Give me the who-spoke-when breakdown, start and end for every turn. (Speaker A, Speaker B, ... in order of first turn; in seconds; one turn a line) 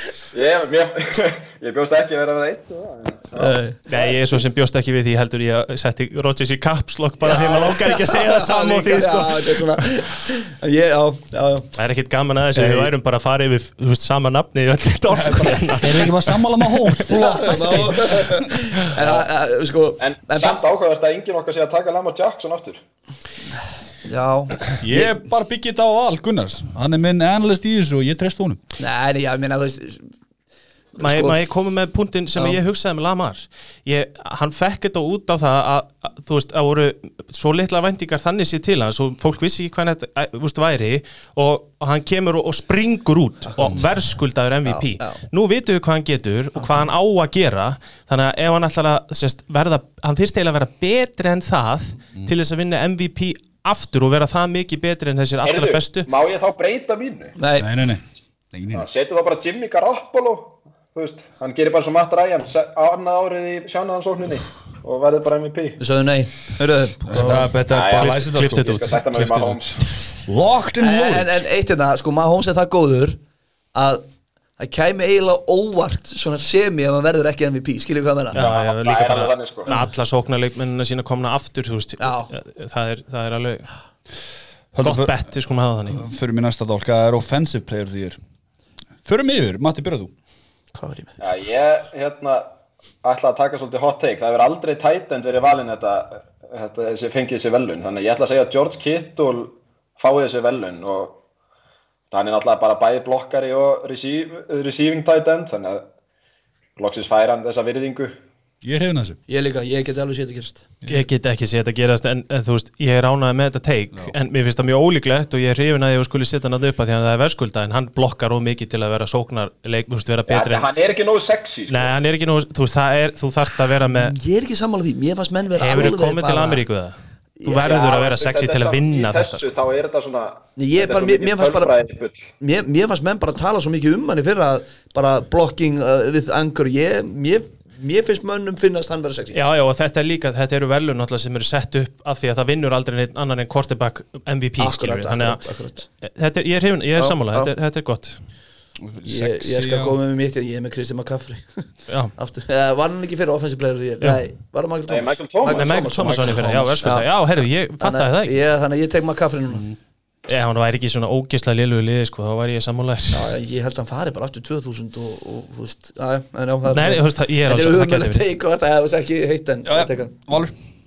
Speaker A: 0.3-3.6
Speaker B: 3.4-4.1
Speaker C: 3.9-9.8
Speaker B: 7.2-11.7
Speaker C: 11.8-18.3
Speaker D: 12.5-12.9
Speaker D: 15.2-18.5
Speaker B: 17.1-20.6
Speaker A: 20.0-22.8
Speaker B: 24.0-25.1
Speaker D: 24.8-28.6
Speaker B: 28.8-30.1
Speaker B: 30.9-31.4
Speaker C: 31.0-56.1
Speaker B: 44.6-45.2
Speaker A: 55.4-57.4
Speaker B: 57.4-57.7
Speaker D: 57.6-58.9
Speaker A: 58.7-65.8
Speaker B: 65.8-67.5
Speaker D: 67.1-68.7
Speaker A: 67.7-69.8
Speaker C: 67.9-69.9
Speaker D: 70.2-71.4
Speaker B: 70.8-73.2
Speaker B: 73.7-74.0
Speaker B: 74.6-78.5
Speaker C: 78.3-83.7
Speaker A: 78.3-79.7
Speaker B: 82.0-82.3
Speaker D: 84.7-85.2
Speaker C: 84.8-86.0
Speaker D: 85.9-88.2
Speaker D: 89.0-90.1
Speaker B: 90.7-91.2
Speaker A: 91.2-92.5
Speaker A: 93.0-101.2
Speaker A: 102.1-105.8
Speaker A: 106.8-108.1
Speaker D: 108.6-109.2
Speaker B: 109.3-110.6
Speaker C: 110.9-120.8
Speaker A: 120.3-121.9
Speaker C: 121.7-124.2
Speaker B: 123.9-126.6
Speaker C: 125.5-129.4
Speaker B: 127.4-127.7
Speaker A: 127.5-132.3
Speaker B: 130.6-131.7
Speaker B: 132.4-139.4
Speaker C: 139.3-148.2
Speaker B: 144.6-145.9
Speaker B: 146.9-147.5
Speaker D: 148.8-150.0
Speaker B: 149.0-157.1
Speaker C: 151.9-152.1
Speaker A: 154.9-156.8
Speaker C: 155.4-158.4
Speaker B: 157.8-159.6
Speaker C: 160.2-163.3
Speaker B: 163.1-170.2
Speaker C: 166.7-168.2
Speaker D: 169.6-170.5